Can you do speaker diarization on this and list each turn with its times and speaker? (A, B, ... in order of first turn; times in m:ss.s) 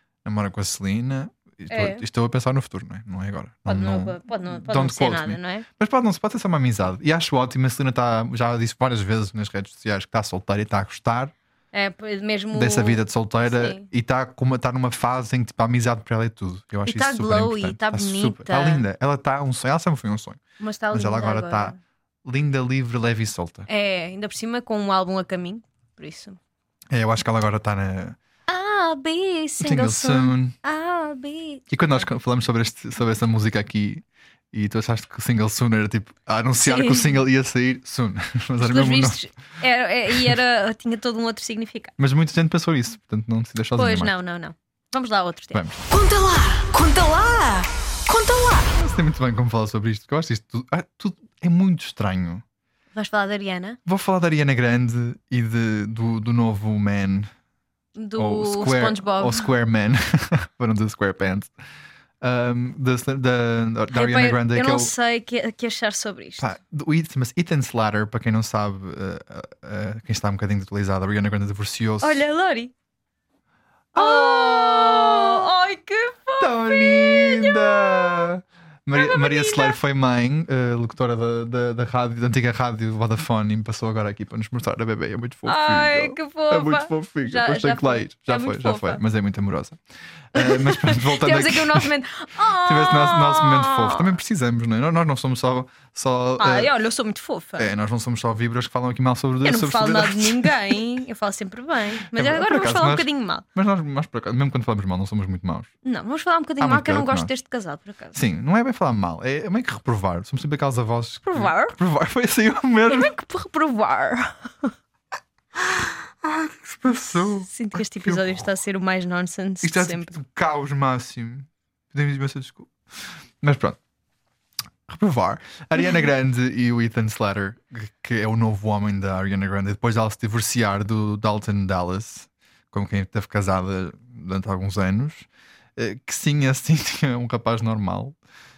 0:00.2-0:11.3 A
0:01.7-0:02.0 B
0:03.6-0:05.6 B
0:11.7-0:13.8 B
0:12.5-0:20.4 A
0:16.8-0:18.8 B
0:20.6-0:21.8 B
0:20.9-0:23.7 A
0:23.7-0:26.4 B
0:26.9-0:28.2 A
0:28.5-0:32.0 B
0:29.6-0:30.5 A
0:31.7-0:39.2 A
0:36.6-0:37.1 B
0:38.6-0:41.9 B
0:40.1-0:40.4 A
0:42.0-0:44.1 A
0:43.8-0:45.6 B
0:45.5-0:45.8 A
0:45.9-0:48.7 C
0:48.7-0:52.4 A
0:52.9-0:53.8 B
0:53.8-0:57.3 A
0:58.0-0:59.4 B
0:58.2-1:01.5 A
1:02.2-1:04.9 A
1:03.9-1:06.5 B
1:06.4-1:12.2 A
1:12.0-1:12.7 B
1:13.9-1:15.4 A
1:13.9-1:18.3 B
1:16.4-1:29.8 A
1:18.9-1:19.8 B
1:25.4-1:29.0 B
1:30.3-1:31.9 A
1:30.3-1:34.1 B
1:32.6-1:36.7 A
1:36.4-1:37.7 B
1:37.6-1:40.8 A
1:39.4-1:43.4 B
1:42.1-1:45.7 A
1:45.8-1:48.2 B
1:46.6-1:47.3 A
1:48.1-1:53.1 A
1:51.2-1:51.8 B
1:52.9-1:54.7 B
1:56.2-1:58.4 A
1:57.4-2:00.1 B
1:59.6-2:02.7 A
2:03.4-2:03.8 A
2:04.9-2:18.2 A